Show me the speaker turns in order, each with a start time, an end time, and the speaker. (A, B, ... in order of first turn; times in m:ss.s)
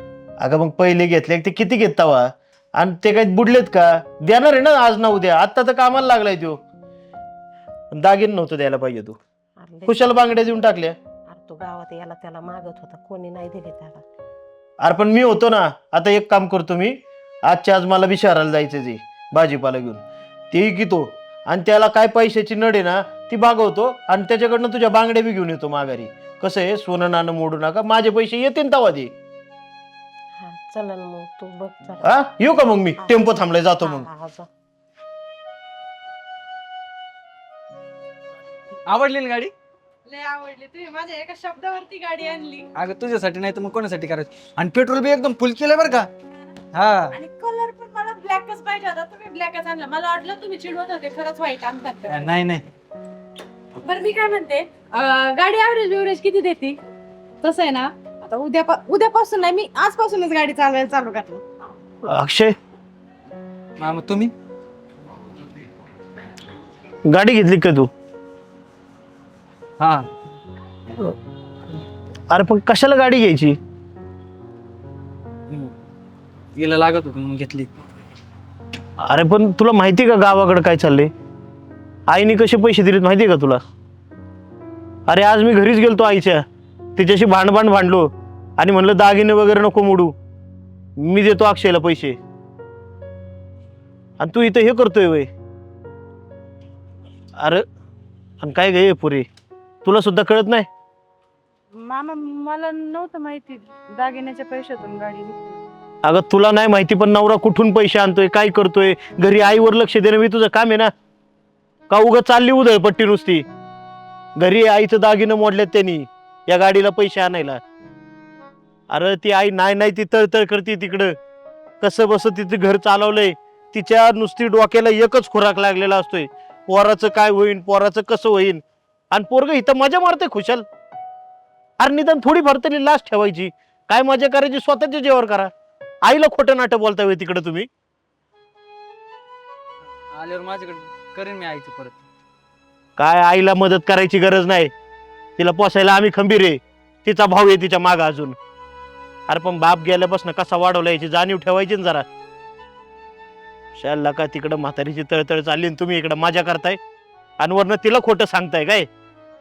0:00.4-0:06.6 A
0:07.9-0:09.2 A
0:09.6-0:10.0 B
0:09.8-0:11.0 A
0:11.3-0:14.0 B
0:14.8-0:29.1 A
0:30.4-0:32.2 B
0:32.0-0:34.1 A
0:33.8-0:34.5 B
0:38.8-0:39.5 C
0:40.0-0:42.7 D
0:42.7-0:46.1 C
0:46.7-0:47.2 C
0:47.1-0:52.3 D
0:52.1-0:52.6 C
0:53.8-0:56.8 D
0:57.4-1:01.4 D
1:02.0-1:02.5 A
1:03.8-1:04.3 C
1:07.1-1:07.9 A
1:09.8-1:10.0 C
1:12.3-1:13.6 A
1:16.5-1:17.7 C
1:19.0-1:21.1 A
1:22.1-1:23.6 A
1:25.1-1:26.4 A
1:27.0-1:30.1 A
1:31.0-1:32.2 A
1:34.2-1:35.3 A
1:37.4-1:37.6 A
1:38.4-1:39.3 A
1:39.8-1:40.7 A
1:41.7-1:45.5 D
1:46.0-1:50.9 A
1:51.9-1:53.4 A
1:54.4-1:57.6 A
1:58.9-2:01.1 A
2:01.8-2:10.6 A
2:11.8-2:15.5 A
2:16.0-2:17.7 A
2:20.1-2:22.0 C
2:23.0-2:24.7 A
2:25.4-2:28.4 A
2:29.3-2:32.0 A
2:33.8-2:36.8 A
2:37.4-2:38.9 A